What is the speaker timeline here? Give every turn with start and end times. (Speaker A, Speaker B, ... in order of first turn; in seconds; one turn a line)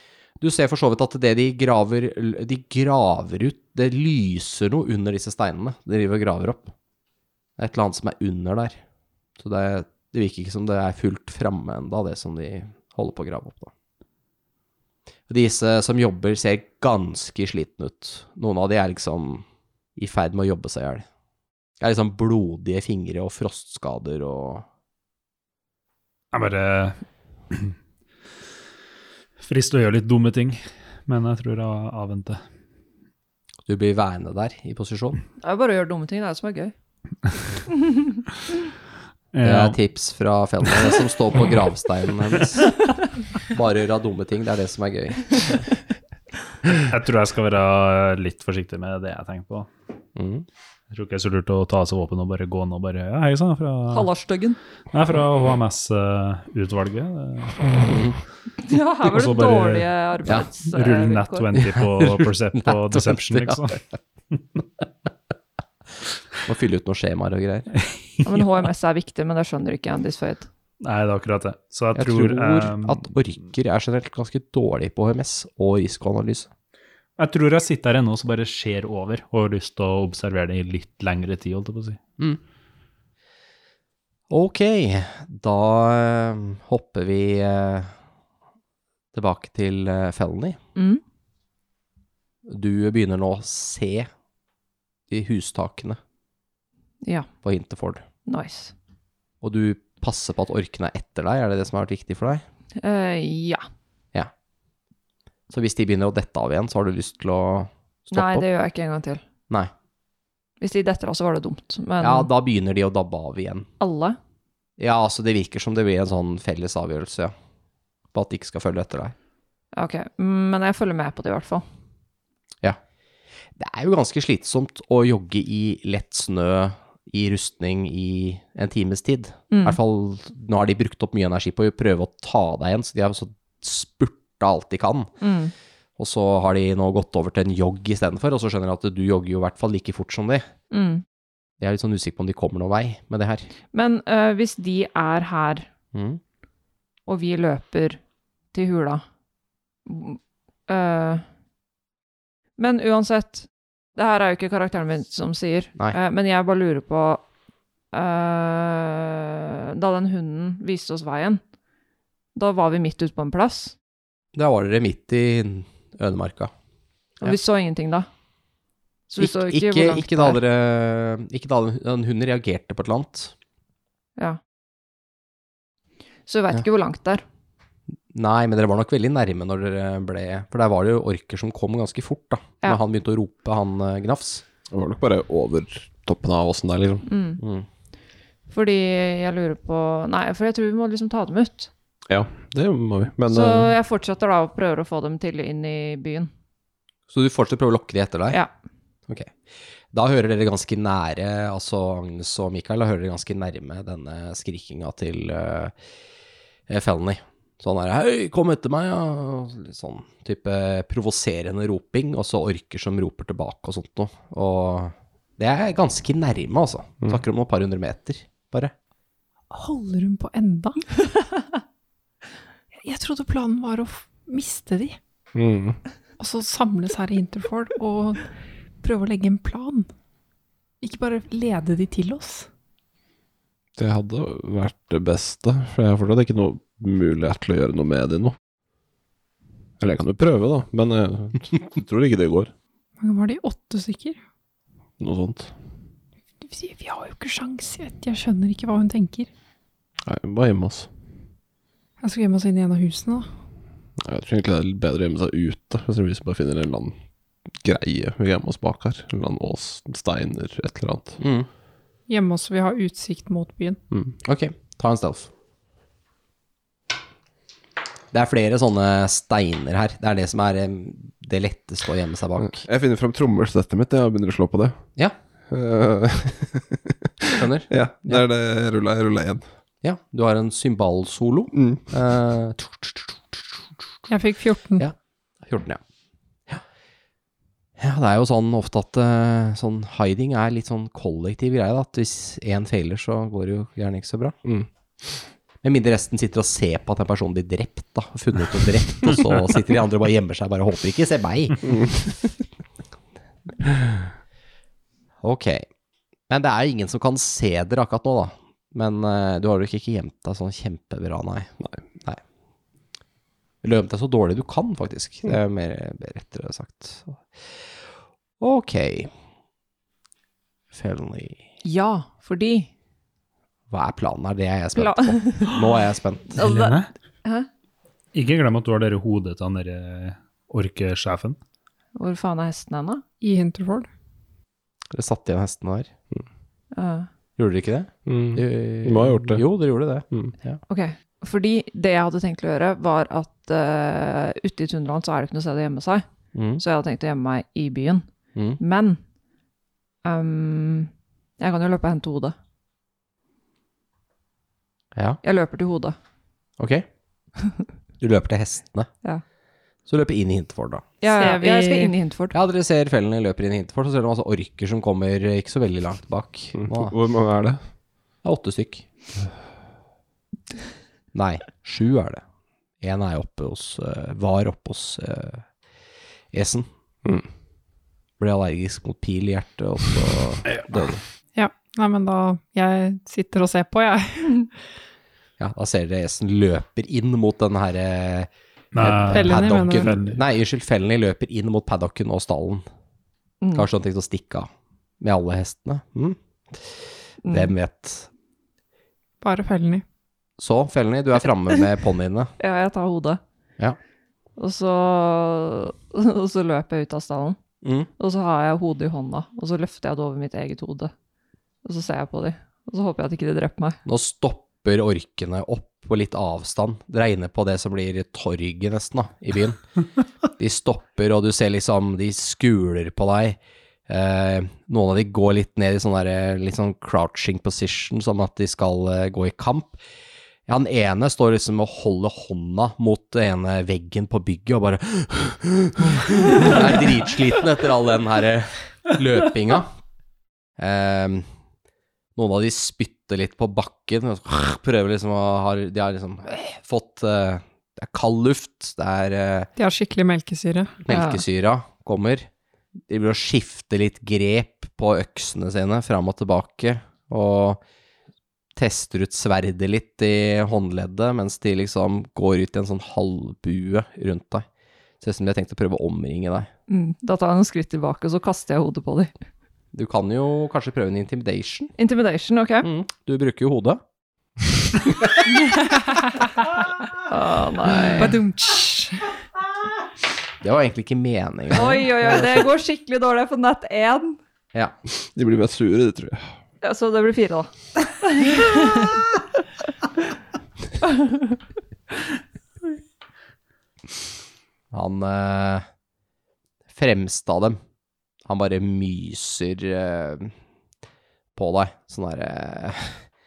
Speaker A: 0.4-6.7
Speaker A: 7.6-8.8
Speaker A: 9.4-13.7
Speaker A: 15.3-19.4
Speaker A: 19.9-21.0
Speaker A: 21.8-24.6
Speaker B: 26.3-27.0
Speaker B: 29.4-32.4
Speaker A: 33.7-35.2
Speaker C: 35.4-36.7
Speaker C: 37.7-38.2
Speaker B: 39.3-39.8
Speaker A: 39.4-42.7
Speaker A: 43.5-45.5
Speaker B: 46.8-49.7
Speaker A: 50.1-50.5
Speaker B: 50.9-54.1
Speaker C: 53.9-54.6
Speaker B: 54.9-57.8
Speaker A: 57.8-58.1
Speaker C: 58.6-61.5
Speaker B: 59.0-59.9
Speaker B: 60.6-63.8
Speaker A: 61.6-63.6
Speaker A: 66.4-67.7
Speaker C: 68.2-70.5
Speaker B: 70.8-73.1
Speaker A: 71.9-76.5
Speaker B: 77.2-82.0
Speaker A: 84.3-87.9
Speaker A: 89.1-90.6
Speaker C: 90.8-91.0
Speaker A: 92.5-94.1
Speaker A: 95.1-96.0
Speaker C: 97.0-97.3
Speaker A: 97.4-98.0
Speaker C: 98.2-98.7
Speaker A: 99.4-102.4
Speaker C: 102.8-103.6
Speaker A: 105.5-108.4
Speaker C: 108.1-109.2
Speaker C: 110.6-112.3
Speaker A: 112.0-113.7
Speaker C: 113.8-114.2
Speaker A: 114.8-117.3
Speaker A: 118.1-119.1
Speaker C: 119.7-121.6
Speaker A: 123.5-135.1
Speaker C: 129.5-129.8
Speaker C: 135.2-135.5
Speaker A: 136.0-140.4
Speaker C: 140.7-141.0
Speaker A: 141.6-143.5
Speaker C: 143.7-145.7
Speaker A: 145.9-146.2
Speaker C: 147.1-148.0
Speaker C: 148.5-149.0
Speaker C: 149.8-151.2
Speaker C: 152.6-157.2
Speaker C: 157.9-161.4
Speaker C: 162.3-163.7
Speaker A: 164.3-166.5
Speaker C: 167.2-168.1
Speaker C: 169.1-170.4
Speaker A: 169.2-173.3
Speaker C: 176.3-177.2
Speaker A: 178.1-184.4
Speaker D: 184.7-187.1
Speaker C: 187.1-187.4
Speaker A: 187.4-187.7
Speaker C: 188.5-191.7
Speaker D: 192.1-193.7
Speaker C: 193.3-196.3
Speaker A: 197.1-198.4
Speaker A: 199.9-205.7
Speaker A: 206.7-218.7
Speaker E: 219.5-220.8
Speaker E: 222.8-225.0
Speaker D: 225.3-225.8
Speaker E: 226.2-228.3
Speaker E: 228.8-229.9
Speaker E: 230.8-232.5
Speaker D: 233.8-238.3
Speaker D: 239.8-242.5
Speaker E: 243.0-244.2
Speaker D: 245.0-245.5
Speaker E: 246.4-249.3
Speaker D: 250.0-250.9
Speaker E: 252.0-253.3
Speaker D: 254.0-256.9
Speaker D: 257.6-261.2
Speaker A: 261.2-261.5
Speaker E: 262.1-263.8
Speaker A: 264.2-265.3
Speaker A: 268.1-272.6
Speaker D: 272.4-274.8
Speaker D: 275.5-279.4
Speaker A: 277.3-278.2
Speaker A: 279.8-283.4
Speaker D: 281.5-281.9
Speaker E: 284.1-284.8
Speaker A: 284.8-285.8
Speaker A: 287.8-294.4
Speaker A: 295.6-301.8
Speaker A: 305.2-305.6
Speaker A: 306.3-312.2
Speaker A: 313.6-317.6
Speaker A: 318.4-319.1
Speaker A: 320.7-321.4
Speaker C: 321.6-322.7
Speaker A: 323.7-326.4
Speaker C: 324.8-325.6
Speaker B: 326.4-326.9
Speaker C: 326.4-327.5
Speaker B: 328.1-331.4
Speaker C: 331.9-333.0
Speaker E: 333.2-333.9
Speaker A: 334.9-335.9
Speaker C: 336.7-337.1
Speaker A: 337.4-340.6
Speaker D: 338.1-339.4
Speaker C: 340.7-346.0
Speaker A: 346.3-346.6
Speaker C: 346.6-348.1
Speaker C: 348.6-349.0
Speaker C: 350.0-352.3
Speaker A: 354.9-355.2
Speaker C: 355.2-355.9
Speaker A: 356.6-356.8
Speaker A: 358.0-358.9
Speaker A: 359.9-360.8
Speaker C: 361.0-362.3
Speaker E: 361.1-361.9
Speaker A: 362.3-366.9
Speaker D: 366.5-367.6
Speaker A: 368.2-368.9
Speaker A: 371.1-372.2
Speaker A: 372.8-375.5
Speaker A: 376.3-376.7
Speaker A: 378.2-381.0
Speaker E: 381.3-384.5
Speaker A: 385.4-392.6
Speaker B: 388.7-390.2
Speaker E: 389.1-389.9
Speaker A: 393.5-394.5
Speaker A: 395.0-396.8
Speaker C: 397.2-397.5
Speaker A: 397.3-398.1
Speaker E: 399.2-399.8
Speaker A: 400.4-402.3
Speaker C: 402.4-403.2
Speaker C: 404.4-407.4
Speaker A: 407.6-407.9
Speaker C: 408.0-410.9
Speaker C: 411.6-413.8
Speaker A: 413.8-419.6
Speaker A: 420.4-429.8
Speaker A: 430.5-439.7
Speaker A: 440.6-441.2
Speaker A: 442.1-449.5
Speaker E: 449.6-450.8
Speaker A: 450.8-452.3
Speaker C: 450.9-451.2
Speaker A: 452.9-457.6
Speaker A: 458.6-464.4
Speaker A: 465.0-466.5
Speaker C: 466.7-469.1
Speaker A: 469.7-471.7
Speaker C: 471.8-472.7
Speaker A: 472.6-473.8
Speaker C: 477.0-478.2
Speaker E: 478.0-479.1
Speaker A: 480.4-481.9
Speaker C: 481.5-484.2
Speaker D: 484.9-486.3
Speaker C: 486.6-489.0
Speaker C: 490.8-491.3
Speaker A: 494.7-495.6
Speaker A: 496.7-497.6
Speaker A: 498.2-500.3
Speaker A: 501.3-503.0